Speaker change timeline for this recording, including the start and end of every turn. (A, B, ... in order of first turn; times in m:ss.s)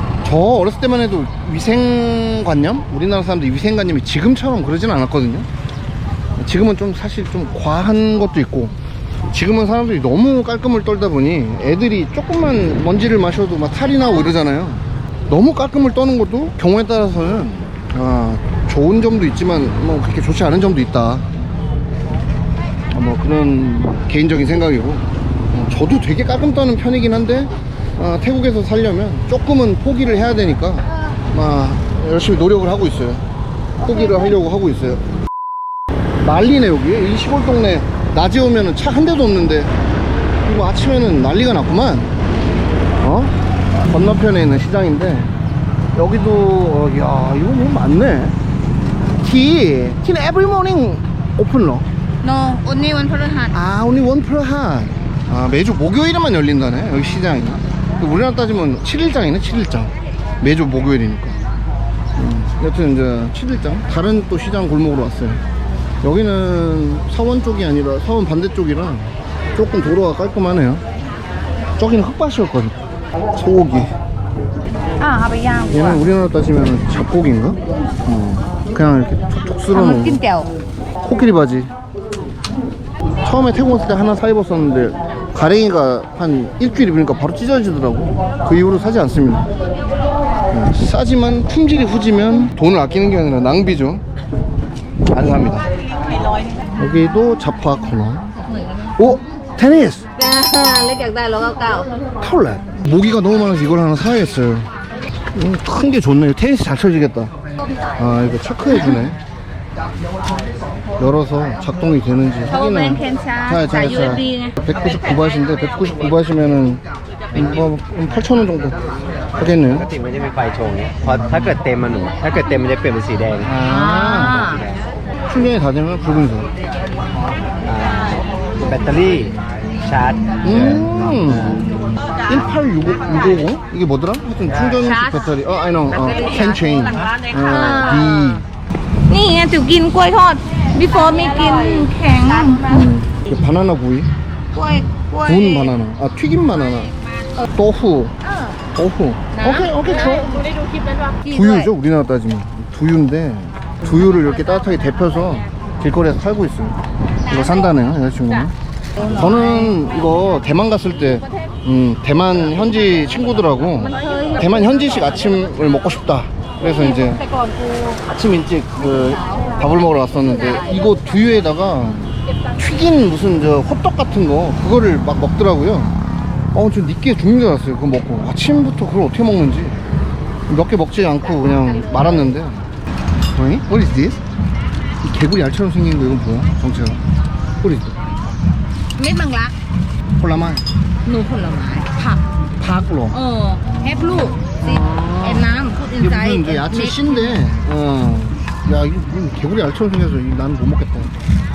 0:00.2-0:05.5 A
0:06.4-0:08.8 A
0:09.3-0:21.3 A
0:22.9-0:33.2 A
0:33.8-0:35.0 A
0:36.2-0:39.7 A
0:40.4-0:42.1 A
0:43.0-0:43.3 A
0:43.9-0:45.3 A
0:46.0-0:48.4 A
0:49.2-0:51.9 A
0:52.2-0:53.6 B
0:53.5-1:01.4 A
1:02.2-1:05.4 A
1:06.0-1:10.8 A
1:11.8-1:12.8 A
1:13.4-1:13.9 A
1:15.0-1:16.0 B
1:15.7-1:20.2 A
1:19.7-1:20.5 B
1:21.0-1:21.7 A
1:23.2-1:29.5 A
1:30.5-1:34.0 A
1:35.1-1:35.7 A
1:36.8-1:38.3 A
1:39.0-1:40.1 A
1:40.2-1:41.9 B
1:42.2-1:44.7 A
1:45.4-1:47.3 A
1:48.0-1:49.2 A
1:51.0-1:56.8 A
1:52.5-1:54.6 B
1:57.3-1:58.8 A
1:59.4-1:59.9 A
1:59.9-2:03.5 C
2:03.4-2:04.6 A
2:03.6-2:04.7 B
2:05.3-2:06.5 A
2:07.6-2:11.6 C
2:10.4-2:11.7 A
2:12.3-2:18.4 A
2:14.8-2:15.4 B
2:16.0-2:16.8 B
2:17.5-2:18.4 B
2:19.1-2:22.8 B
2:22.7-2:24.1 A
2:24.5-2:25.8 B
2:25.2-2:26.9 A
2:27.6-2:28.1 A
2:28.2-2:28.6 B
2:28.8-2:30.3 A
2:29.3-2:30.4 B
2:31.2-2:31.7 B
2:31.3-2:38.5 A
2:39.0-2:39.9 B
2:39.0-2:47.2 A
2:44.0-2:44.5 B
2:46.8-2:48.0 B
2:48.0-2:56.0 A
2:56.5-2:59.8 A
3:00.5-3:02.7 A
3:03.4-3:04.2 A
3:05.0-3:07.0 A
3:07.6-3:08.0 A
3:09.0-3:09.6 B
3:10.2-3:10.6 A
3:11.0-3:12.2 B
3:12.6-3:21.1 A
3:13.1-3:17.4 B